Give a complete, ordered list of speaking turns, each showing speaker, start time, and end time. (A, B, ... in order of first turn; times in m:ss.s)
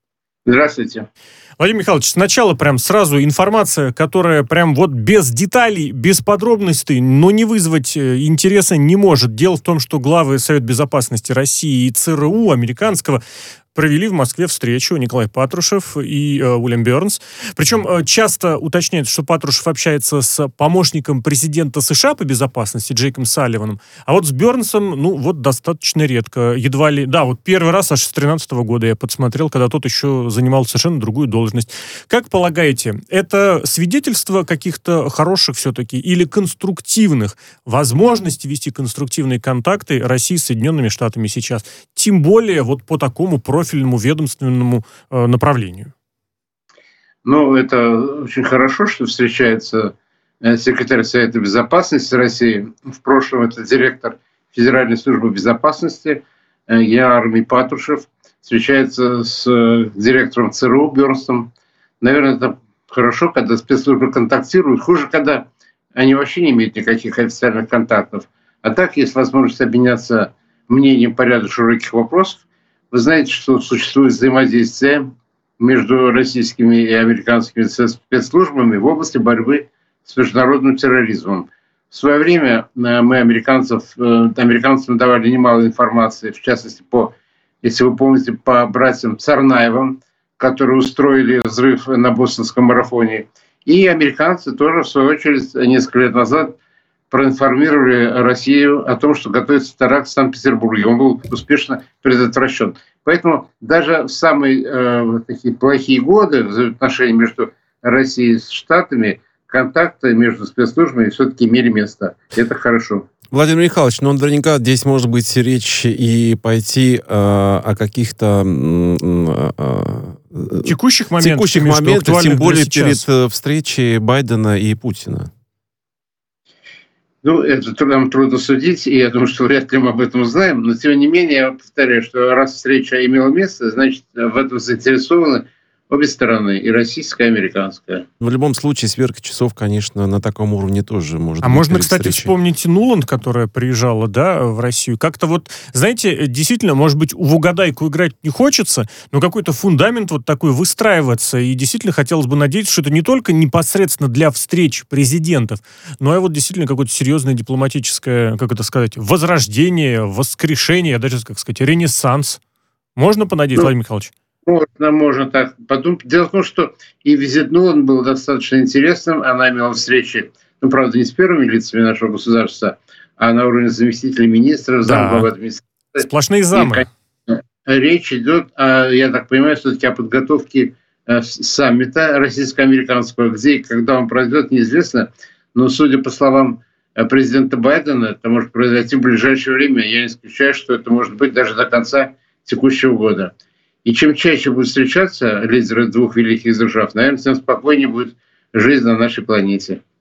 0:00.4-0:01.1 A
0:01.6-0:13.2 B
0:13.7-0:45.9 B
0:47.2-1:01.5 A
1:02.0-1:15.1 A
1:15.6-1:36.6 A
1:37.1-1:53.1 A
1:53.3-2:05.3 C
2:00.6-2:03.0 B
2:07.2-2:18.1 A
2:18.2-2:22.3 C
2:21.4-2:42.4 B
2:43.0-2:44.1 B
2:44.5-3:13.3 A
2:54.8-2:55.3 B
2:56.0-2:56.8 B
3:13.8-3:19.8 A